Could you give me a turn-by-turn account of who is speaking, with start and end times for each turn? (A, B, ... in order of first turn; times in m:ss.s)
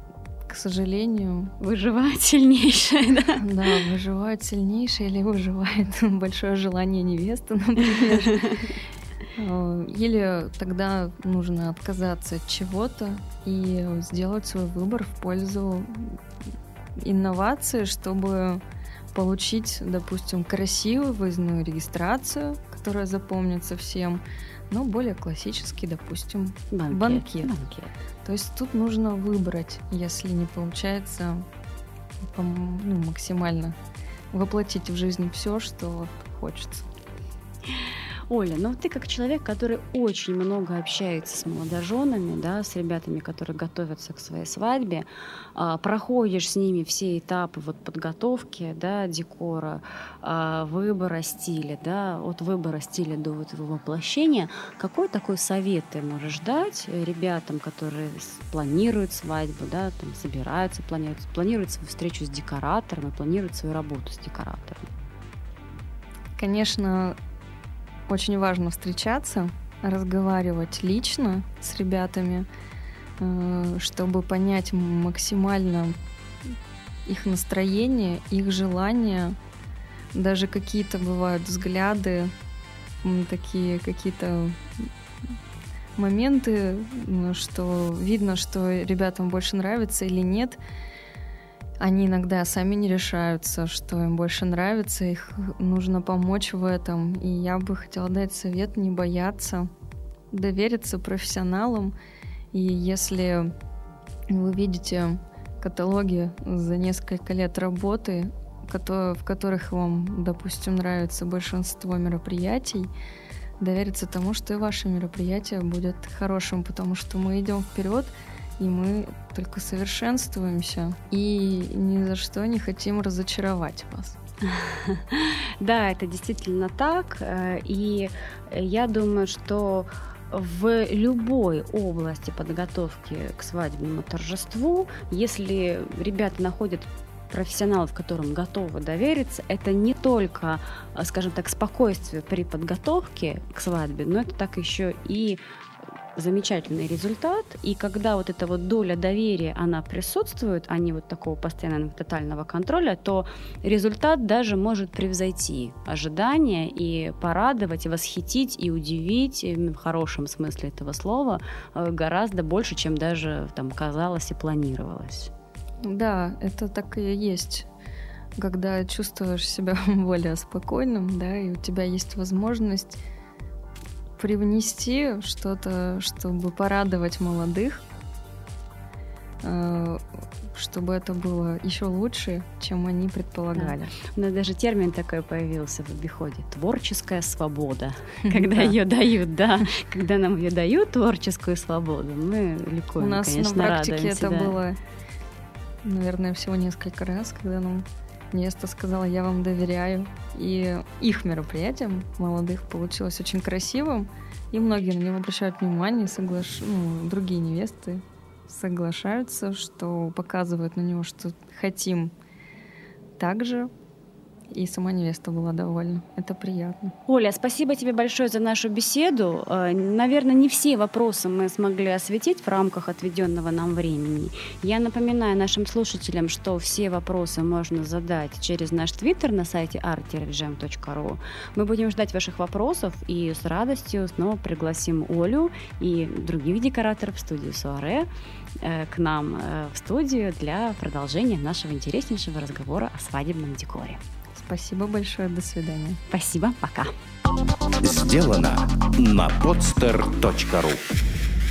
0:00.4-0:01.5 A
0:01.6-0:03.8 B
0:03.4-0:08.6 A
0:09.4-0:16.2 A
0:17.0-0:18.6 A
0:19.1-0:27.5 A
0:26.7-0:27.9 B
0:28.2-0:31.4 A
0:32.2-0:33.8 A
0:34.3-0:36.8 A
0:38.3-1:04.9 B
1:06.4-1:07.2 A
1:08.1-1:12.5 A
1:13.2-1:16.0 A
1:17.0-1:19.4 A
1:20.1-1:22.3 A
1:23.0-1:25.3 A
1:26.0-1:30.6 A
1:31.8-1:39.7 A
1:40.3-1:41.9 A
1:42.5-1:43.5 A
1:44.3-1:52.9 A
1:53.6-2:04.2 A
2:04.4-2:25.4 B
2:26.1-2:45.3 B
2:45.8-2:47.7 A
2:48.4-2:53.0 A
2:54.2-2:57.8 A
2:59.4-3:03.9 A
3:03.6-3:14.6 B
3:08.2-3:08.8 A
3:13.0-3:14.8 A
3:15.8-3:32.1 A
3:33.2-3:33.7 A
3:34.5-3:36.9 A
3:37.1-3:58.1 B
3:58.6-4:04.0 B
4:04.3-4:06.0 A
4:06.1-4:06.9 B
4:07.8-4:10.8 C